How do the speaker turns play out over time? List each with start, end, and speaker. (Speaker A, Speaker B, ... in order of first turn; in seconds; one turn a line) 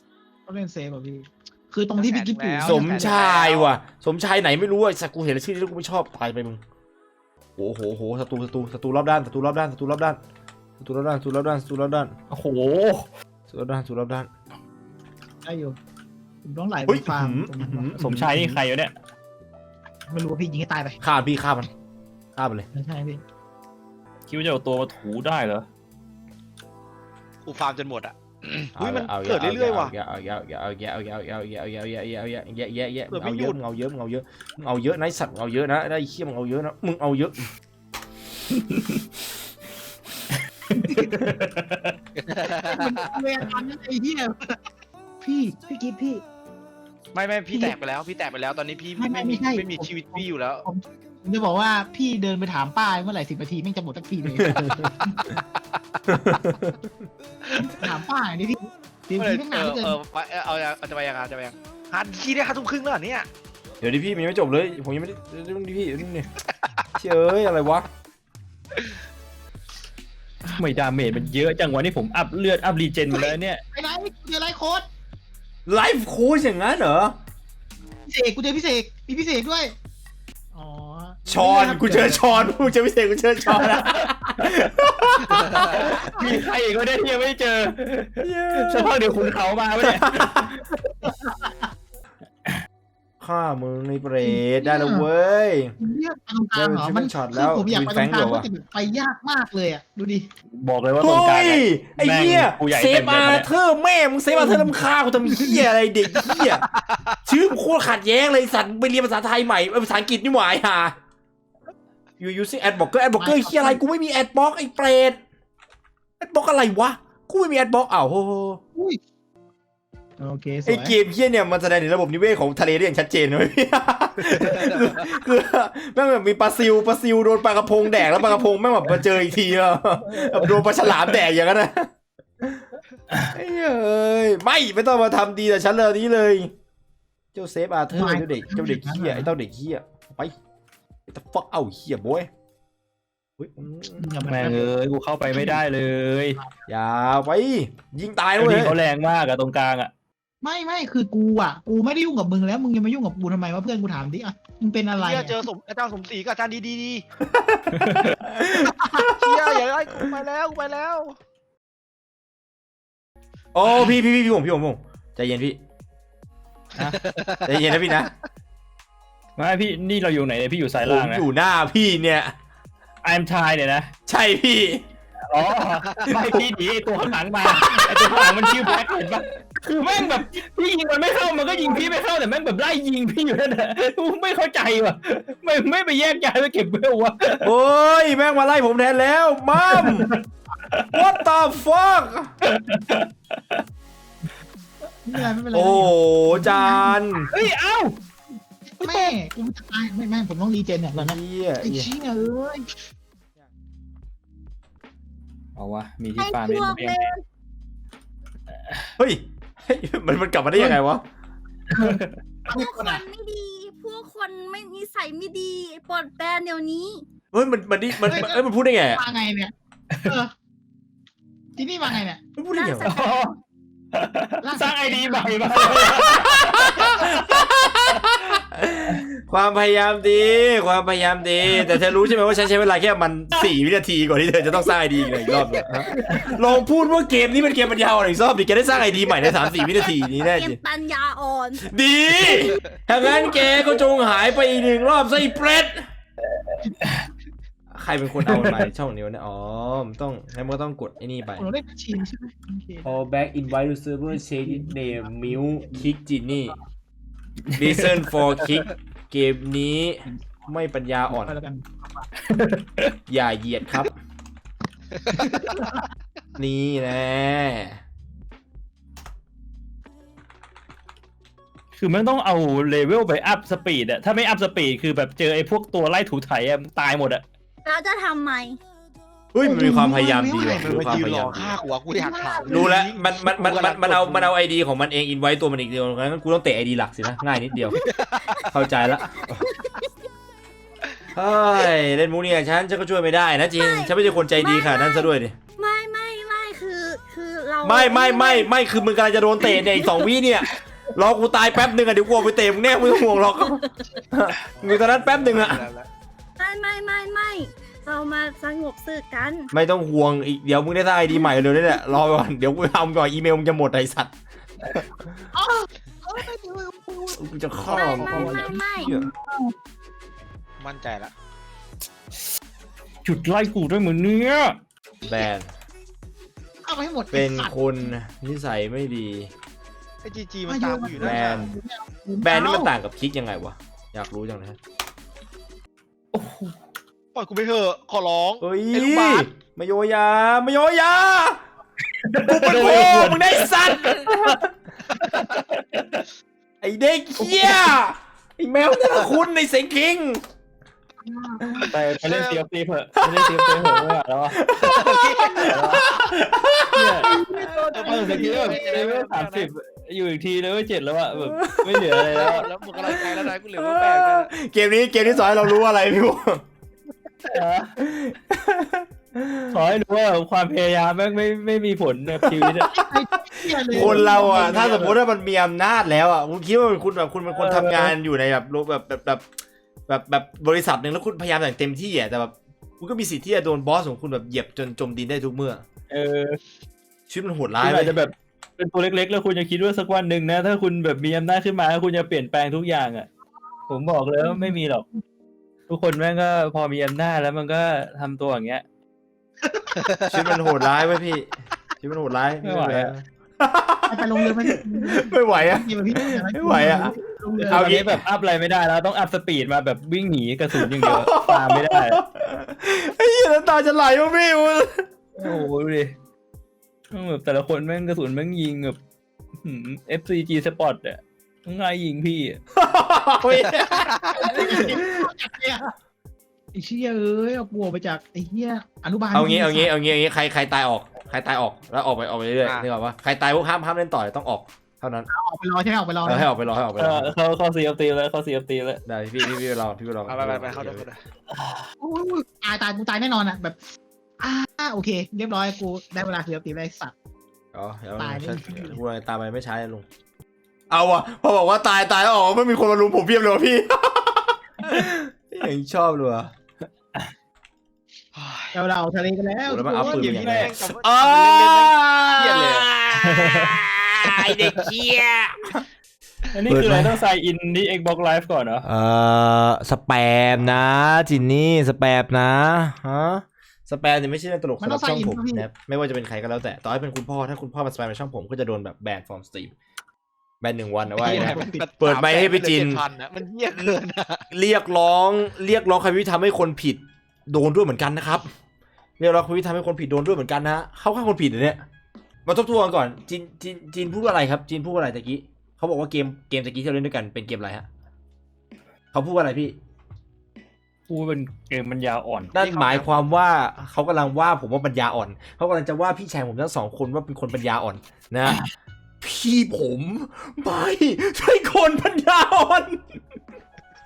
Speaker A: 0.5-3.1
Speaker B: 2.0-3.7
Speaker C: 2.6-6.6
Speaker C: 7.6-10.2
Speaker C: 10.8-12.1
Speaker D: 12.3-13.1
Speaker C: 13.5-14.3
Speaker A: 15.4-15.8
Speaker A: 16.4-17.9
Speaker C: 16.9-18.6
Speaker D: 17.9-18.9
Speaker A: 20.1-21.0
Speaker C: 21.0-21.7
Speaker C: 22.4-22.6
Speaker A: 22.7-23.2
Speaker D: 24.3-25.6
Speaker B: 27.4-29.9
Speaker C: 28.8-37.5
Speaker B: 33.1-33.6
Speaker D: 38.5-39.0
Speaker D: 40.7-42.0
Speaker A: 40.8-41.1
Speaker B: 42.2-43.1
Speaker A: 42.6-44.6
Speaker A: 45.2-46.2
Speaker B: 47.1-50.6
Speaker A: 49.0-55.3
Speaker C: 54.4-54.8
Speaker C: 56.1-56.8
Speaker B: 57.5-57.8
Speaker A: 57.6-60.0
Speaker B: 59.2-63.3
Speaker C: 63.8-66.3
Speaker C: 67.0-67.9
Speaker D: 70.5-73.6
Speaker A: 73.1-74.9
Speaker C: 75.7-77.2
Speaker A: 78.1-79.7
Speaker A: 80.5-82.7
Speaker C: 81.3-85.9
Speaker D: 83.6-84.5
Speaker B: 85.3-85.8
Speaker D: 85.7-90.5
Speaker C: 88.2-89.1
Speaker C: 89.8-90.6
Speaker A: 91.0-91.7
Speaker C: 93.2-95.8
Speaker A: 94.2-95.1
Speaker A: 95.8-100.3
Speaker C: 96.5-98.5
Speaker D: 100.5-103.5
Speaker C: 101.0-106.6
Speaker A: 104.3-105.6
Speaker B: 106.2-107.2
Speaker C: 107.2-110.9
Speaker C: 112.2-115.2
Speaker A: 113.2-113.8
Speaker C: 116.2-118.6
Speaker A: 120.2-121.0
Speaker C: 120.7-132.6
Speaker B: 124.3-125.1
Speaker D: 130.2-130.6
Speaker C: 133.3-136.5
Speaker C: 137.3-140.3
Speaker A: 137.9-139.3
Speaker C: 141.1-142.3
Speaker C: 143.4-144.1
Speaker A: 143.9-144.7
Speaker D: 144.3-146.4
Speaker A: 145.3-145.6
Speaker C: 146.7-148.8
Speaker D: 148.4-149.9
Speaker A: 150.4-155.4
Speaker B: 155.0-157.1
Speaker C: 157.2-159.6
Speaker D: 157.7-158.2
Speaker B: 159.1-161.2
Speaker C: 163.5-165.6
Speaker B: 166.8-168.1
Speaker C: 167.4-168.1
Speaker D: 169.4-171.2
Speaker C: 170.8-172.3
Speaker D: 173.0-173.9
Speaker C: 174.1-174.9
Speaker D: 175.3-187.5
Speaker A: 177.6-178.0
Speaker A: 181.5-181.8
Speaker C: 187.4-190.1
Speaker D: 189.6-191.1
Speaker C: 190.9-192.3
Speaker D: 192.4-193.6
Speaker A: 195.1-197.3
Speaker C: 195.5-197.3
Speaker D: 197.3-197.9
Speaker A: 198.8-202.7
Speaker C: 200.9-201.9
Speaker D: 205.6-207.1
Speaker E: 206.2-207.2
Speaker D: 208.5-208.9
Speaker C: 209.0-211.0
Speaker D: 211.7-212.2
Speaker A: 212.5-213.0
Speaker E: 212.5-217.1
Speaker C: 217.3-219.0
Speaker A: 218.1-218.4
Speaker A: 218.9-219.5
Speaker D: 219.9-220.2
Speaker A: 220.0-220.3
Speaker A: 221.6-222.2
Speaker C: 222.4-222.9
Speaker E: 222.5-223.1
Speaker D: 222.8-223.3
Speaker D: 223.9-227.6
Speaker A: 224.4-226.1
Speaker C: 225.8-240.6
Speaker D: 236.1-236.3
Speaker E: 239.7-241.7
Speaker C: 241.6-245.9
Speaker A: 243.0-243.3
Speaker D: 246.8-247.1
Speaker C: 247.7-251.5
Speaker D: 248.2-248.6
Speaker A: 251.4-253.0
Speaker C: 252.8-256.6
Speaker A: 254.4-255.8
Speaker D: 257.4-258.0
Speaker C: 257.6-261.4
Speaker A: 261.1-262.1
Speaker D: 262.2-263.0
Speaker C: 263.1-263.9
Speaker A: 265.1-265.8
Speaker B: 265.2-265.6
Speaker C: 266.4-267.8
Speaker D: 271.8-277.2
Speaker E: 277.6-278.6
Speaker C: 279.3-281.6
Speaker A: 279.4-280.7
Speaker B: 280.2-284.3
Speaker A: 281.9-282.8
Speaker C: 282.4-287.8
Speaker B: 287.8-288.5
Speaker C: 288.5-289.4
Speaker E: 289.1-289.9
Speaker C: 291.1-295.4
Speaker E: 293.6-298.5
Speaker C: 297.6-305.6
Speaker B: 304.5-305.9
Speaker E: 306.4-309.5
Speaker C: 309.5-314.1
Speaker A: 315.3-319.5
Speaker C: 317.1-319.1
Speaker E: 317.7-318.9
Speaker B: 320.6-321.1
Speaker D: 323.0-324.6
Speaker C: 325.0-325.5
Speaker A: 326.6-327.9
Speaker C: 327.1-329.3
Speaker B: 330.0-331.4
Speaker A: 330.5-332.7
Speaker C: 331.0-331.5
Speaker C: 332.2-334.6
Speaker D: 336.1-336.6
Speaker B: 337.1-339.3
Speaker C: 338.4-341.4
Speaker D: 341.9-344.4
Speaker C: 342.2-344.5
Speaker D: 345.0-346.1
Speaker B: 345.1-345.3
Speaker C: 346.6-350.2
Speaker D: 347.2-347.6
Speaker A: 351.0-351.7
Speaker D: 351.7-354.7
Speaker B: 351.9-352.4
Speaker C: 353.0-357.4
Speaker B: 354.6-356.0
Speaker D: 355.4-355.9
Speaker D: 356.7-357.3
Speaker A: 357.0-358.9
Speaker B: 357.6-359.5
Speaker D: 357.8-362.5
Speaker C: 361.1-362.2
Speaker B: 362.0-364.3
Speaker C: 362.8-366.4
Speaker D: 367.2-367.8
Speaker C: 367.8-369.6
Speaker D: 369.5-372.8
Speaker C: 372.2-372.7
Speaker A: 372.7-374.9
Speaker C: 373.7-379.2
Speaker D: 373.7-375.0
Speaker D: 377.4-377.9
Speaker C: 379.9-385.6
Speaker D: 385.9-386.4
Speaker C: 387.1-388.0
Speaker D: 387.6-393.1
Speaker D: 393.7-394.9
Speaker A: 394.3-394.5
Speaker D: 395.7-398.6
Speaker A: 399.4-399.8
Speaker B: 399.9-400.1
Speaker C: 400.1-401.3
Speaker C: 401.8-408.0
Speaker D: 402.4-402.9
Speaker A: 403.9-407.8
Speaker D: 407.4-412.0
Speaker C: 410.6-414.9
Speaker D: 415.1-415.9
Speaker D: 416.9-418.8
Speaker D: 419.4-422.4
Speaker C: 422.5-425.1
Speaker B: 423.3-424.4
Speaker A: 424.2-425.7
Speaker D: 424.3-424.8
Speaker A: 426.5-429.7
Speaker C: 429.1-435.1
Speaker A: 435.1-436.3
Speaker C: 436.0-437.1
Speaker D: 436.8-438.8
Speaker C: 438.9-440.9
Speaker B: 440.1-441.0
Speaker D: 441.3-441.6
Speaker A: 441.8-443.6
Speaker A: 444.2-446.9
Speaker C: 447.5-449.9
Speaker A: 448.0-448.8
Speaker C: 450.7-456.3
Speaker B: 458.1-458.6
Speaker A: 458.5-460.4
Speaker C: 459.4-465.6
Speaker B: 459.8-462.7
Speaker D: 463.0-463.6
Speaker D: 466.3-468.7
Speaker C: 466.5-467.0
Speaker C: 468.6-479.5
Speaker A: 474.6-475.4
Speaker C: 480.4-482.8
Speaker A: 480.9-481.6
Speaker B: 481.0-484.2
Speaker C: 484.3-488.3
Speaker C: 489.0-491.6
Speaker C: 492.2-497.7
Speaker C: 498.9-499.6
Speaker D: 500.9-502.4
Speaker C: 502.3-508.4
Speaker B: 502.4-502.9
Speaker C: 509.0-512.8